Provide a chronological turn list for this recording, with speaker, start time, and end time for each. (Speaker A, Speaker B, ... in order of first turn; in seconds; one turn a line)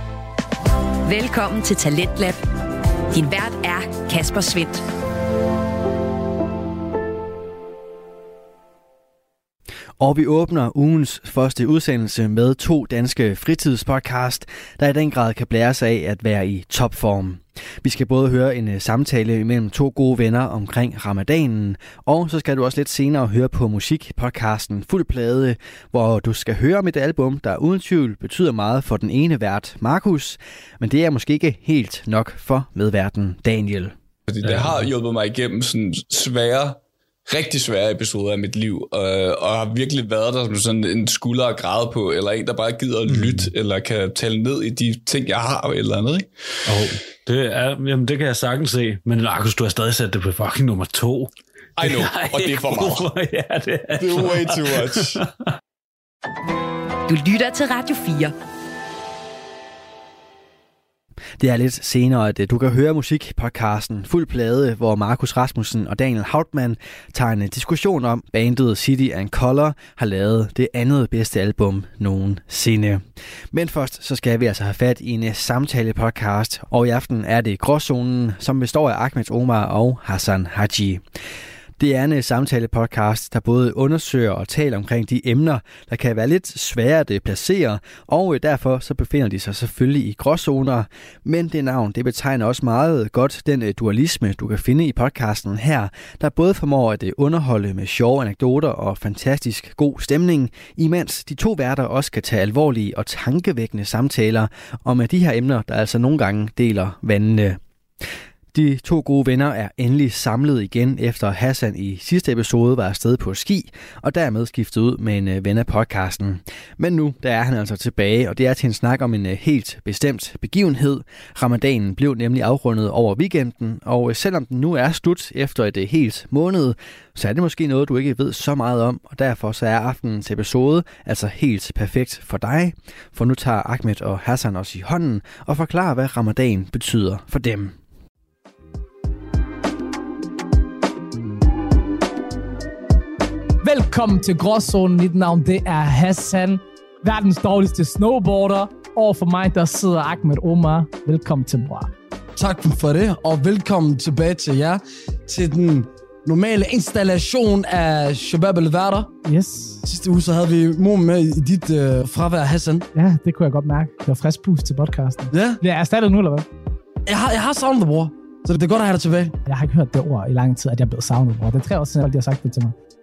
Speaker A: 1.1-2.4
Speaker A: 3.1-4.8
Speaker B: 10.0-34.0
Speaker C: 34.3-46.3
Speaker D: 34.4-34.9
Speaker D: 43.1-43.5
Speaker D: 46.7-55.4
Speaker C: 51.8-53.1
Speaker C: 54.0-55.2
Speaker A: 57.1-58.3
Speaker B: 61.4-81.0
Speaker B: 81.8-107.6
Speaker B: 108.5-137.8
Speaker E: 143.6-151.9
Speaker F: 152.4-159.1
Speaker E: 159.2-159.8
Speaker F: 159.8-162.9
Speaker E: 162.9-166.5
Speaker F: 165.3-165.6
Speaker F: 167.1-169.4
Speaker E: 169.5-172.7